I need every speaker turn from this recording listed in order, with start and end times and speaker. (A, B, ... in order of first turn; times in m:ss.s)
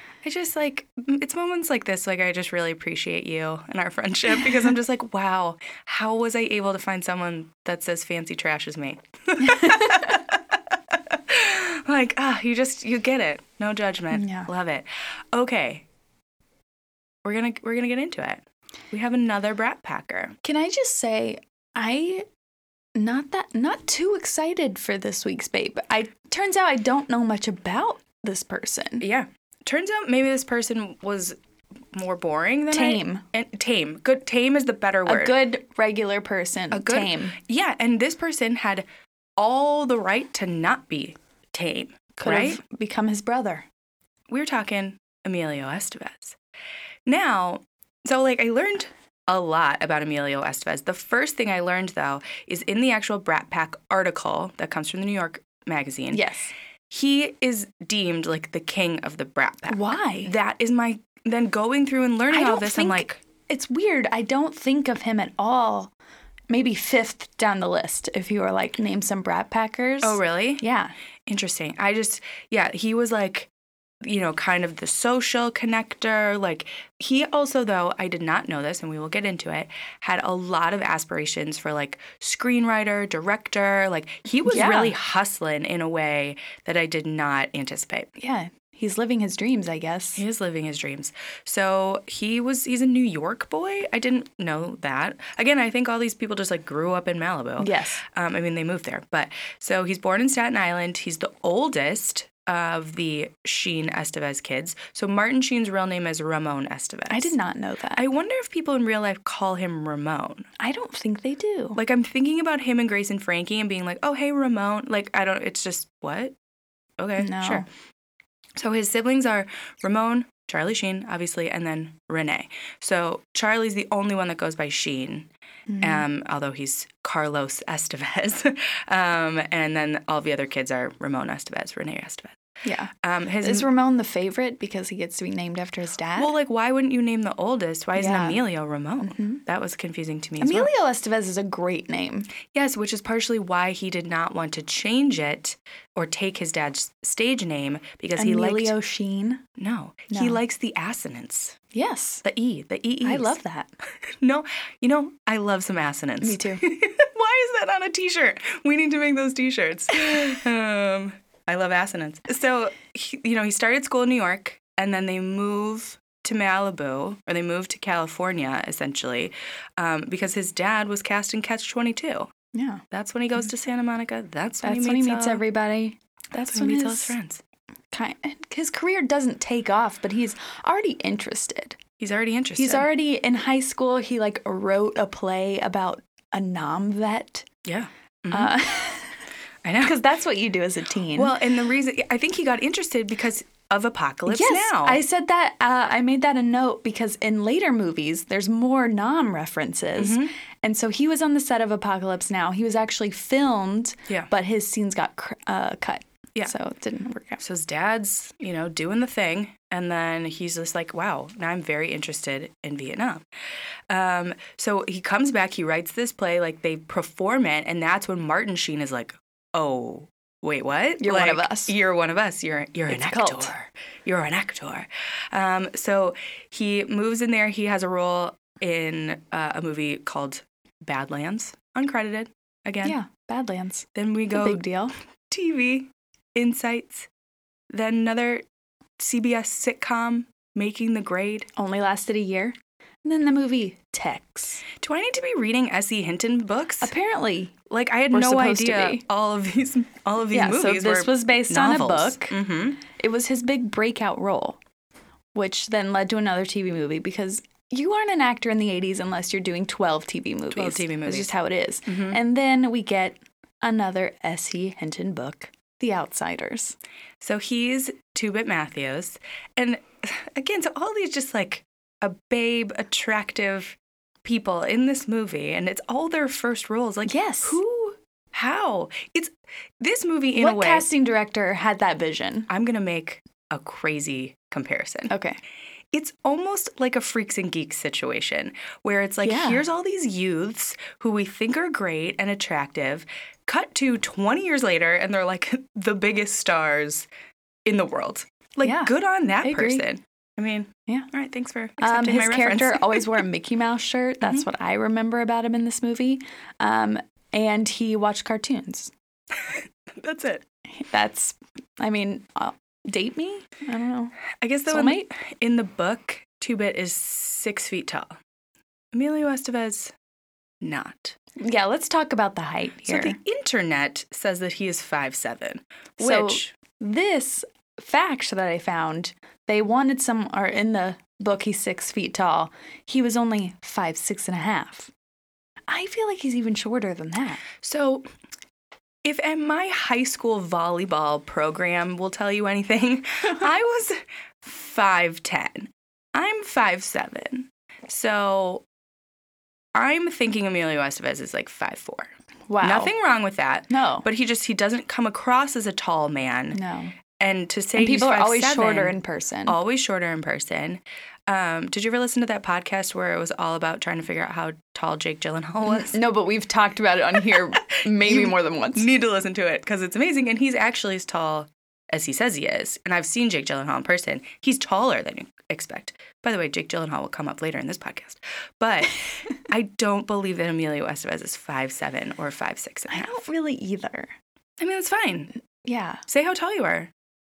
0:00.2-0:15.8 A
0:09.4-0:10.2 B
0:14.1-0:14.5 B
0:17.2-0:20.4 A
0:20.4-0:22.3 B
0:23.0-0:29.1 B
0:29.0-0:31.4 A
0:31.9-0:35.4 A
0:32.7-0:33.2 B
0:35.1-0:37.4 B
0:36.7-0:38.9 A
0:39.4-0:42.6 A
0:42.2-0:43.7 B
0:44.3-0:46.4 A
0:47.1-0:56.2 A
0:56.1-0:56.5 B
0:56.9-1:03.2 A
0:59.7-1:00.3 B
1:02.3-1:05.9 B
1:06.5-1:10.9 B
1:10.0-1:10.6 A
1:11.3-1:13.5 A
1:14.0-1:28.1 A
1:24.5-1:25.0 B
1:28.2-1:30.2 B
1:30.2-1:47.3 A
1:37.6-1:38.0 B
1:47.1-1:48.0 B
1:48.0-1:50.5 A
1:50.6-1:51.8 B
1:51.8-1:56.4 A
1:57.0-1:57.6 A
1:57.2-1:57.7 B
1:58.6-2:05.3 A
2:05.7-2:06.1 B
2:05.8-2:12.4 A
2:12.6-2:16.3 B
2:13.0-2:13.7 A
2:16.2-2:20.7 A
2:18.0-2:18.4 B
2:19.0-2:19.4 B
2:20.4-2:22.3 B
2:22.5-2:28.7 A
2:28.2-2:29.4 B
2:29.6-2:31.6 A
2:30.1-2:30.4 B
2:31.7-2:32.2 B
2:32.2-2:33.4 A
2:33.0-2:33.7 B
2:34.1-2:52.3 A
2:36.2-2:36.6 B
2:52.5-2:52.8 B
2:52.9-2:55.4 A
2:54.6-2:57.2 B
2:56.4-2:57.4 A
2:57.9-3:01.8 B
3:02.0-3:02.9 A
3:02.6-3:07.5 B
3:07.6-3:08.5 A
3:08.3-3:09.3 B
3:09.6-3:10.0 A
3:09.8-3:11.4 B
3:11.1-3:15.0 A
3:14.3-3:27.4 B
3:20.0-3:20.3 A
3:27.4-3:33.2 A
3:33.9-3:53.0 A
3:41.0-3:41.7 B
3:42.9-3:43.5 B
3:52.8-3:54.9 B
3:54.0-3:54.6 A
3:55.3-3:57.1 A
3:57.7-3:58.4 A
3:59.0-4:01.5 A
4:01.6-4:04.6 B
4:04.8-4:06.9 A
4:06.8-4:07.6 B
4:07.7-4:12.8 A
4:08.1-4:09.0 B
4:10.3-4:14.6 B
4:15.3-4:26.8 B
4:20.5-4:21.3 A
4:21.9-4:22.2 A
4:27.2-4:40.9 A
4:37.1-4:37.6 B
4:40.4-4:42.5 B
4:42.5-4:45.1 A
4:45.1-4:45.4 B
4:45.9-4:57.1 A
4:49.2-4:49.6 B
4:57.7-5:03.1 A
4:58.6-4:59.8 B
5:01.8-5:08.9 B
5:09.4-5:10.4 A
5:10.8-5:14.2 B
5:14.4-5:18.2 A
5:14.7-5:15.1 B
5:18.9-5:19.9 A
5:20.6-5:21.2 A
5:21.4-5:23.2 B
5:22.9-5:26.5 A
5:26.0-5:34.9 B
5:35.7-5:37.4 B
5:37.6-5:38.1 A
5:39.0-5:48.6 A
5:49.7-5:56.6 A
5:52.5-5:52.9 B
5:53.7-5:54.1 B
5:56.5-5:57.0 B
5:57.2-6:06.0 A
5:57.8-5:59.6 B
6:05.7-6:08.9 B
6:07.9-6:23.2 A
6:22.9-6:24.1 B
6:24.6-6:25.3 A
6:25.6-6:26.0 B
6:26.1-6:26.9 A